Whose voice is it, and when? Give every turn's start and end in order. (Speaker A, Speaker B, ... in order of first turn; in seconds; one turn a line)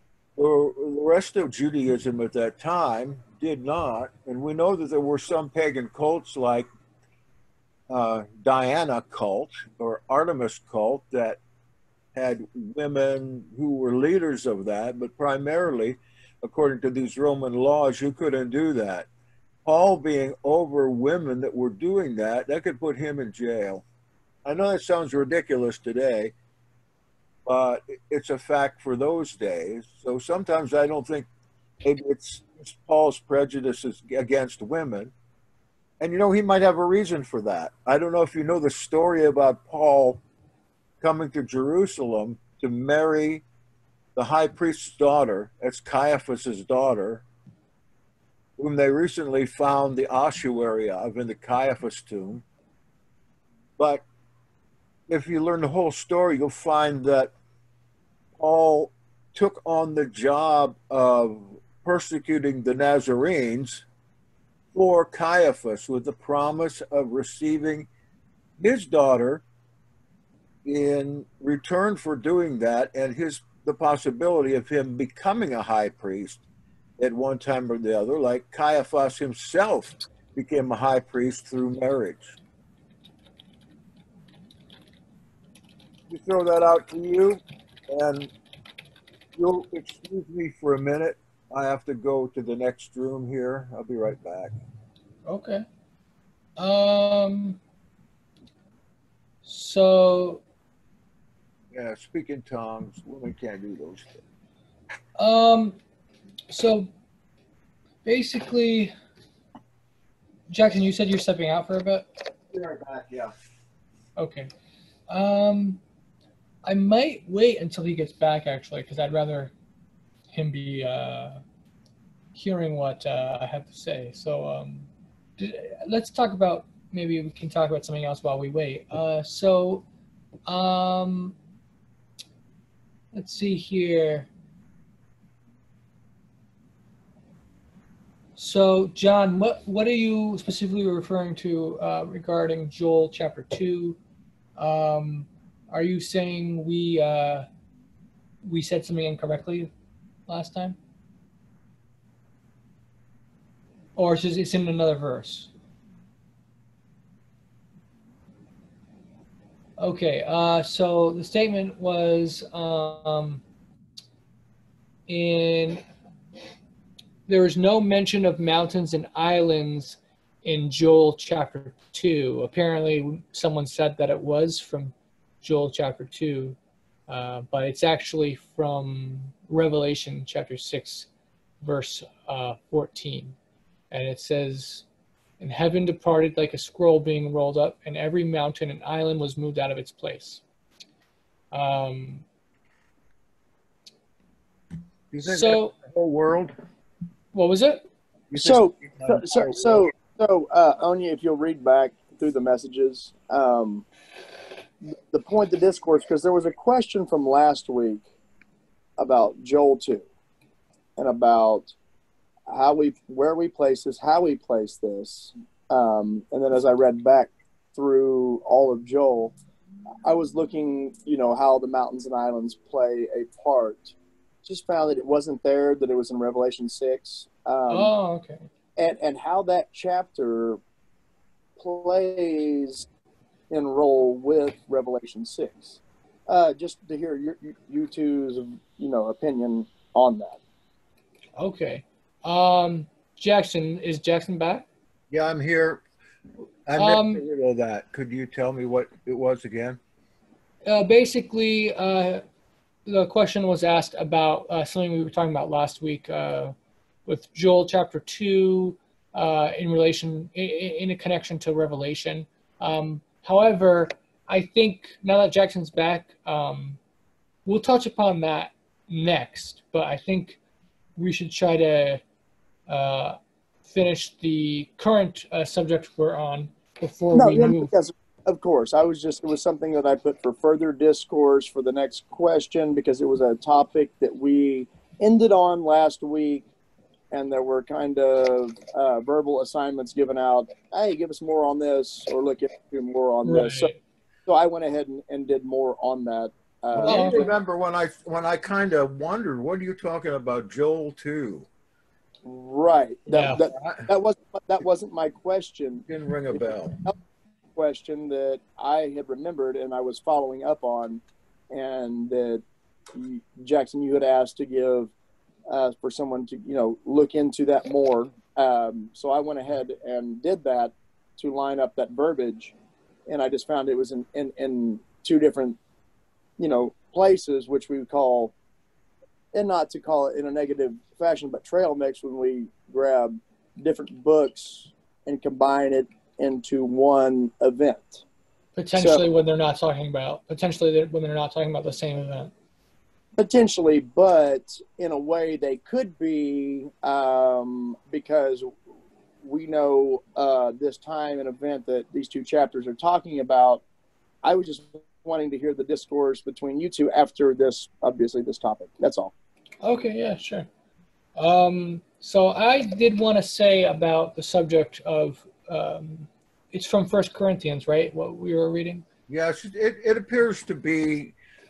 Speaker A: 0.3-6.7
Speaker A: 7.9-11.4
Speaker A: 12.1-19.1
Speaker A: 19.6-23.8
Speaker A: 24.4-26.3
Speaker A: 27.4-31.3
Speaker A: 31.8-35.1
Speaker A: 36.0-40.2
Speaker A: 41.0-43.4
Speaker A: 44.1-47.2
Speaker A: 48.6-52.4
Speaker A: 53.8-54.0
Speaker A: 55.1-57.3
Speaker A: 58.4-63.8
Speaker A: 64.7-67.9
Speaker A: 68.6-69.4
Speaker A: 70.6-76.4
Speaker A: 77.0-82.4
Speaker A: 86.1-88.3
Speaker A: 89.4-94.5
Speaker B: 95.3-95.6
Speaker B: 96.6-97.6
Speaker B: 99.4-100.4
Speaker A: 101.7-104.2
Speaker B: 105.2-105.8
Speaker B: 106.5-106.9
Speaker B: 108.0-108.9
Speaker B: 110.5-112.1
Speaker A: 112.5-113.3
Speaker B: 114.2-114.5
Speaker B: 115.1-115.8
Speaker B: 116.6-119.5
Speaker B: 120.3-121.4
Speaker B: 122.3-129.8
Speaker B: 130.5-131.3
Speaker B: 133.1-134.3
Speaker B: 138.4-144.0
Speaker B: 144.6-147.4
Speaker B: 148.4-149.7
Speaker B: 150.3-150.8
Speaker B: 153.9-155.5
Speaker B: 159.8-163.4
Speaker B: 165.1-165.8
Speaker B: 167.3-176.6
Speaker B: 177.1-181.1
Speaker B: 181.6-183.3
Speaker B: 183.9-184.8
Speaker B: 185.4-190.4
Speaker B: 191.5-192.2
Speaker A: 195.1-196.5
Speaker B: 195.2-195.7
Speaker B: 197.3-197.8
Speaker A: 198.3-199.8
Speaker C: 198.3-203.8
Speaker C: 205.1-208.0
Speaker C: 209.0-210.0
Speaker C: 211.0-211.7
Speaker C: 212.5-219.3
Speaker C: 220.0-227.9
Speaker B: 227.7-228.5
Speaker C: 228.8-230.6
Speaker C: 231.6-232.9
Speaker C: 233.5-240.4
Speaker B: 241.4-244.7
Speaker A: 245.1-245.8
Speaker A: 246.7-249.8
Speaker B: 246.8-247.2
Speaker B: 250.6-252.2
Speaker B: 252.9-256.5
Speaker B: 257.1-266.8
Speaker B: 267.4-270.4
Speaker B: 271.0-272.0
Speaker B: 272.7-277.7
Speaker C: 277.1-286.4
Speaker C: 287.1-293.7
Speaker B: 293.2-293.8
Speaker C: 294.2-297.2
Speaker A: 296.7-301.5
Speaker B: 296.9-297.3
Speaker C: 302.2-305.9
Speaker B: 303.1-303.4
Speaker A: 303.5-303.9
Speaker A: 305.9-306.8
Speaker C: 307.6-314.9
Speaker C: 315.5-322.5
Speaker C: 323.1-325.6
Speaker C: 326.4-328.3
Speaker C: 329.3-338.0
Speaker B: 338.6-342.3
Speaker C: 338.8-339.0
Speaker C: 343.2-348.5
Speaker C: 349.2-353.6
Speaker C: 354.2-359.1
Speaker B: 359.6-360.5
Speaker B: 361.2-368.8
Speaker A: 369.1-371.1